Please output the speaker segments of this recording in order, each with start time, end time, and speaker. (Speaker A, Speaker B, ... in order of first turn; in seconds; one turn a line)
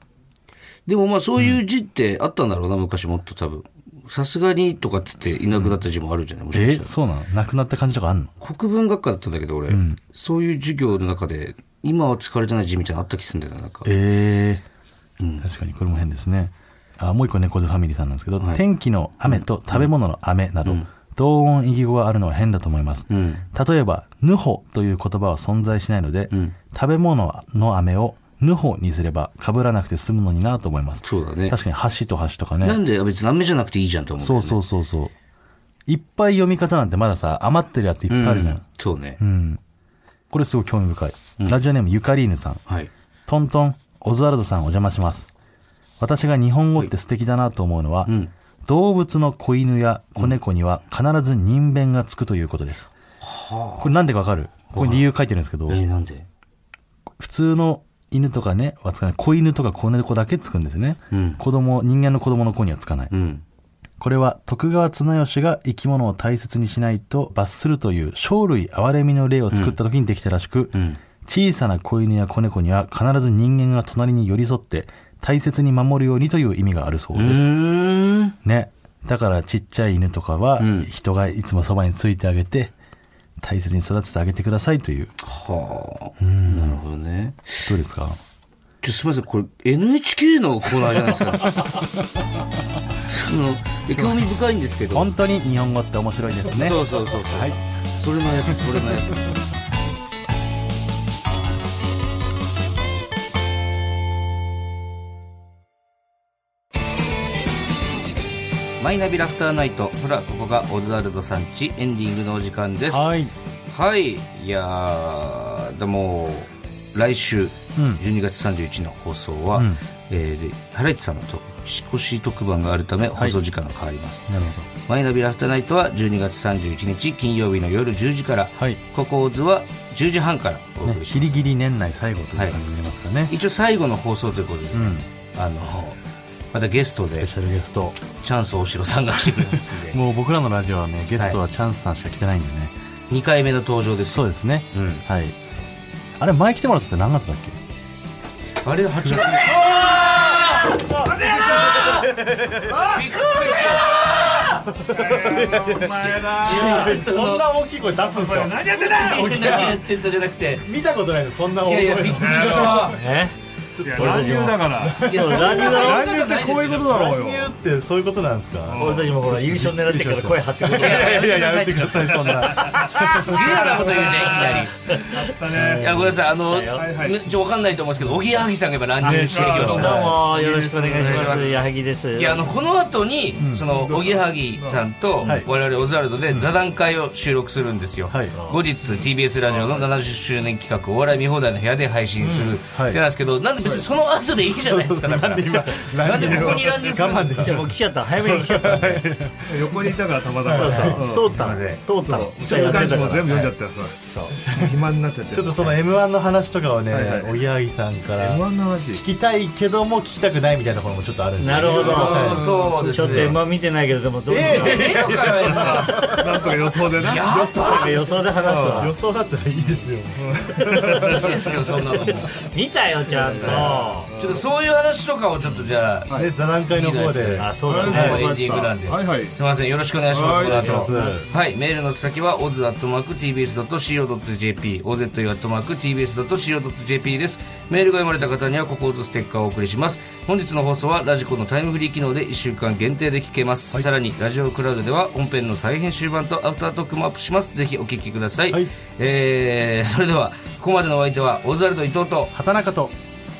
Speaker A: 0.9-6.9
Speaker B: 6.5-8.3
Speaker A: 8.4-13.9
Speaker B: 9.7-10.0
Speaker B: 13.8-14.6
Speaker A: 15.2-15.5
Speaker B: 15.4-32.8
Speaker A: 19.2-19.9
Speaker A: 23.1-23.4
Speaker A: 26.3-26.6
Speaker A: 31.0-31.6
Speaker A: 32.6-34.6
Speaker B: 34.2-35.1
Speaker B: 35.9-38.6
Speaker A: 38.1-39.2
Speaker B: 39.2-39.6
Speaker B: 40.3-42.6
Speaker B: 43.3-45.3
Speaker B: 46.0-48.1
Speaker A: 48.0-48.3
Speaker B: 48.6-52.9
Speaker A: 53.2-53.9
Speaker B: 53.8-55.8
Speaker A: 54.7-55.1
Speaker A: 55.7-56.3
Speaker B: 57.2-63.1
Speaker A: 61.1-61.4
Speaker A: 63.1-63.4
Speaker B: 64.0-77.5
Speaker A: 69.5-69.8
Speaker A: 70.7-71.0
Speaker A: 77.1-78.3
Speaker B: 78.4-82.7
Speaker A: 80.6-80.9
Speaker B: 83.4-85.1
Speaker A: 85.2-87.7
Speaker B: 86.2-86.8
Speaker B: 87.6-88.2
Speaker A: 88.8-91.6
Speaker A: 93.0-95.1
Speaker B: 94.9-97.6
Speaker A: 96.5-99.3
Speaker B: 98.5-99.2
Speaker A: 108.8-113.1
Speaker B: 112.9-113.3
Speaker A: 113.7-124.3
Speaker B: 117.8-118.0
Speaker B: 124.3-124.7
Speaker A: 124.8-131.5
Speaker B: 128.6-128.8
Speaker B: 130.8-133.3
Speaker A: 133.3-136.0
Speaker B: 134.7-135.1
Speaker A: 136.5-137.3
Speaker B: 137.1-138.0
Speaker A: 138.2-140.0
Speaker B: 139.9-142.7
Speaker A: 143.1-145.0
Speaker B: 143.9-145.4
Speaker B: 146.2-147.6
Speaker A: 148.6-152.2
Speaker B: 149.0-152.9
Speaker A: 152.7-154.6
Speaker B: 154.0-159.8
Speaker C: 154.9-156.8
Speaker A: 155.9-157.5
Speaker C: 158.2-159.3
Speaker A: 158.4-160.7
Speaker B: 160.6-163.0
Speaker A: 161.6-163.0
Speaker C: 162.1-162.9
Speaker D: 162.9-163.3
Speaker B: 163.8-165.9
Speaker C: 163.8-167.5
Speaker D: 163.9-166.2
Speaker A: 165.0-167.0
Speaker B: 166.7-173.6
Speaker C: 168.7-169.1
Speaker D: 168.8-171.3
Speaker A: 170.6-175.2
Speaker C: 173.6-176.0
Speaker B: 175.5-176.2
Speaker A: 175.7-180.2
Speaker D: 176.5-176.9
Speaker C: 176.7-177.2
Speaker B: 179.0-179.9
Speaker D: 179.0-182.5
Speaker C: 179.1-181.7
Speaker A: 181.0-181.4
Speaker A: 182.1-197.5
Speaker B: 183.4-183.7
Speaker C: 183.6-184.8
Speaker B: 188.1-188.3
Speaker D: 188.3-188.6
Speaker C: 189.6-189.8
Speaker B: 192.7-193.0
Speaker B: 194.4-201.2
Speaker C: 196.0-197.4
Speaker D: 197.4-199.1
Speaker C: 199.4-201.3
Speaker D: 200.4-203.5
Speaker A: 201.3-201.8
Speaker C: 202.0-205.8
Speaker B: 204.3-204.8
Speaker B: 205.3-212.4
Speaker C: 206.9-207.3
Speaker C: 208.2-209.0
Speaker D: 211.4-214.9
Speaker C: 211.6-213.4
Speaker A: 211.7-213.4
Speaker B: 214.3-216.3
Speaker A: 214.5-216.1
Speaker C: 215.6-217.4
Speaker A: 217.0-218.0
Speaker D: 217.3-218.9
Speaker B: 217.3-217.7
Speaker C: 218.4-218.9
Speaker B: 218.5-221.2
Speaker C: 220.2-221.3
Speaker D: 220.7-221.2
Speaker A: 220.9-222.3
Speaker D: 221.9-224.1
Speaker C: 223.2-224.4
Speaker B: 223.4-223.8
Speaker A: 224.2-226.1
Speaker B: 226.1-228.3
Speaker A: 226.7-252.3
Speaker D: 227.4-228.3
Speaker C: 227.7-229.3
Speaker C: 230.1-231.2
Speaker B: 230.5-231.3
Speaker B: 252.3-252.9